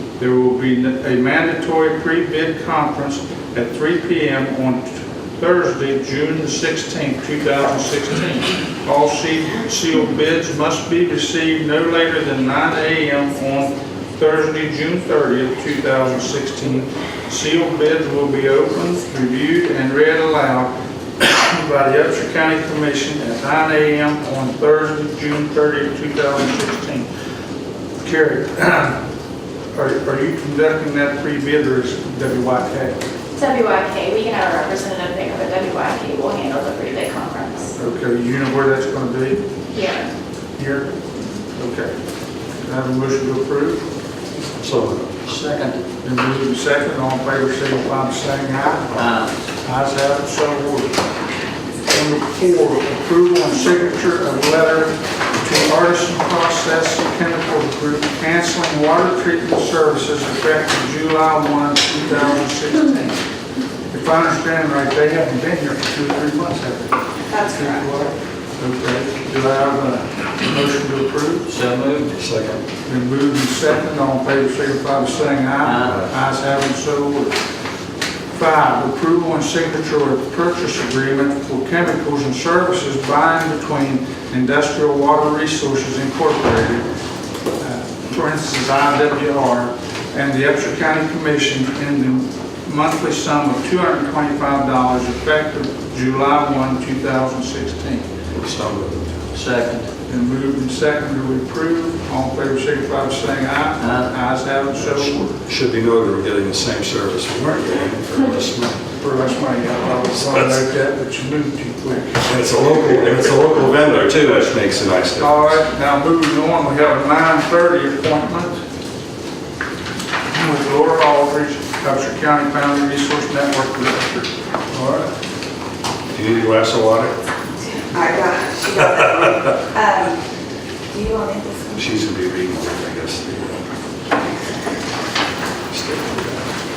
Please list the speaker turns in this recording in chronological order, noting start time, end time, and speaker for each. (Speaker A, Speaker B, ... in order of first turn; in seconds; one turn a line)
Speaker A: 0.2-27.1
Speaker A: 28.0-29.0
Speaker A: 29.8-33.0
Speaker B: 33.4-37.7
Speaker A: 37.8-39.5
Speaker B: 39.7-40.1
Speaker A: 40.6-40.9
Speaker A: 41.6-41.9
Speaker A: 42.6-43.8
Speaker C: 44.6-45.2
Speaker D: 45.2-45.8
Speaker A: 46.0-49.1
Speaker D: 49.0-49.3
Speaker A: 49.6-50.9
Speaker A: 51.9-63.2
Speaker A: 63.9-71.5
Speaker E: 67.3-67.9
Speaker D: 71.5-72.1
Speaker C: 72.1-72.6
Speaker A: 72.9-77.3
Speaker D: 75.6-76.0
Speaker A: 78.3-86.8
Speaker A: 87.6-98.0
Speaker C: 98.4-99.2
Speaker D: 99.3-99.9
Speaker A: 100.1-105.2
Speaker D: 103.8-104.1
Speaker C: 104.8-108.8
Speaker A: 109.0-112.3
Speaker C: 112.2-115.6
Speaker A: 115.1-118.6
Speaker A: 120.3-125.0
Speaker C: 126.1-127.1
Speaker E: 127.7-130.2
Speaker C: 128.8-129.5
Speaker E: 130.9-131.9
Speaker C: 131.7-133.6
Speaker C: 135.7-136.5